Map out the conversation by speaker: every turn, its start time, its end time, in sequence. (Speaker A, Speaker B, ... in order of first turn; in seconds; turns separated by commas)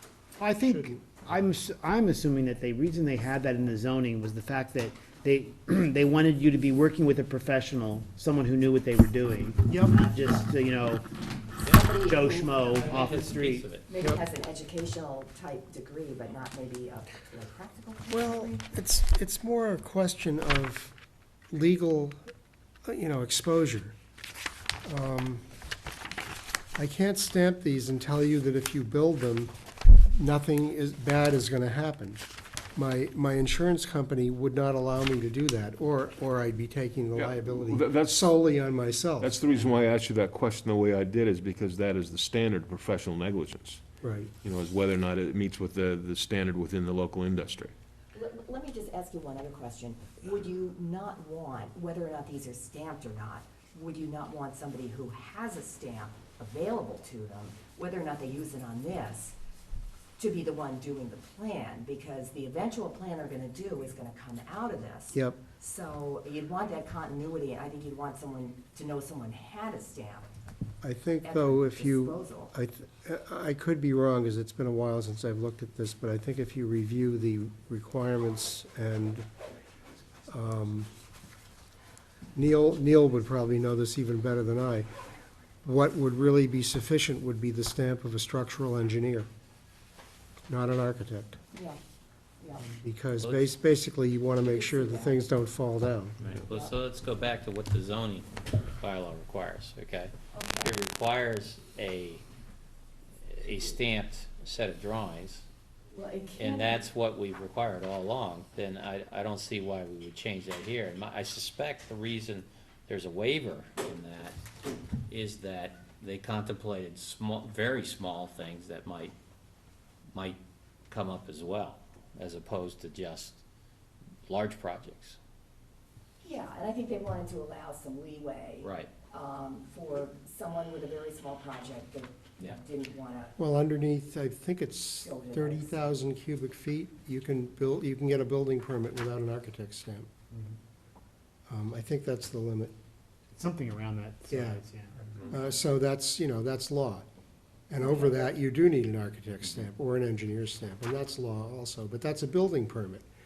Speaker A: 0.4-11.1, Speaker B: 0.5-1.1, Speaker B: 9.7-9.9, Speaker C: 11.6-12.1, Speaker D: 11.8-12.8, Speaker A: 11.9-13.7, Speaker C: 12.7-13.8, Speaker D: 13.8-18.6, Speaker B: 18.1-20.9, Speaker B: 21.5-22.2, Speaker B: 22.8-23.9, Speaker B: 24.8-25.4, Speaker B: 26.8-29.5, Speaker B: 30.1-32.2, Speaker B: 32.7-39.4, Speaker E: 37.1-38.3, Speaker E: 39.2-43.8, Speaker B: 44.0-44.3, Speaker E: 44.4-47.7, Speaker D: 48.1-59.4, Speaker D: 60.2-70.3, Speaker B: 65.1-65.4, Speaker B: 70.8-79.2, Speaker D: 71.2-72.5, Speaker B: 80.3-80.9, Speaker B: 82.3-84.9, Speaker B: 85.6-89.3, Speaker B: 90.5-91.4, Speaker D: 92.4-92.7, Speaker B: 92.8-96.2, Speaker C: 93.2-93.5, Speaker D: 94.4-95.2, Speaker C: 96.2-102.2, Speaker D: 96.5-96.8, Speaker D: 100.3-100.7, Speaker C: 103.2-105.4, Speaker D: 105.9-106.8, Speaker C: 106.4-114.4, Speaker C: 115.1-119.1, Speaker C: 120.1-123.4, Speaker C: 124.3-125.2, Speaker D: 126.2-133.3, Speaker C: 128.6-128.9, Speaker B: 133.4-140.1, Speaker D: 135.0-135.8, Speaker B: 141.5-142.7, Speaker A: 143.3-145.1, Speaker B: 144.3-144.6, Speaker B: 145.2-147.1, Speaker B: 147.7-153.1, Speaker D: 147.8-148.3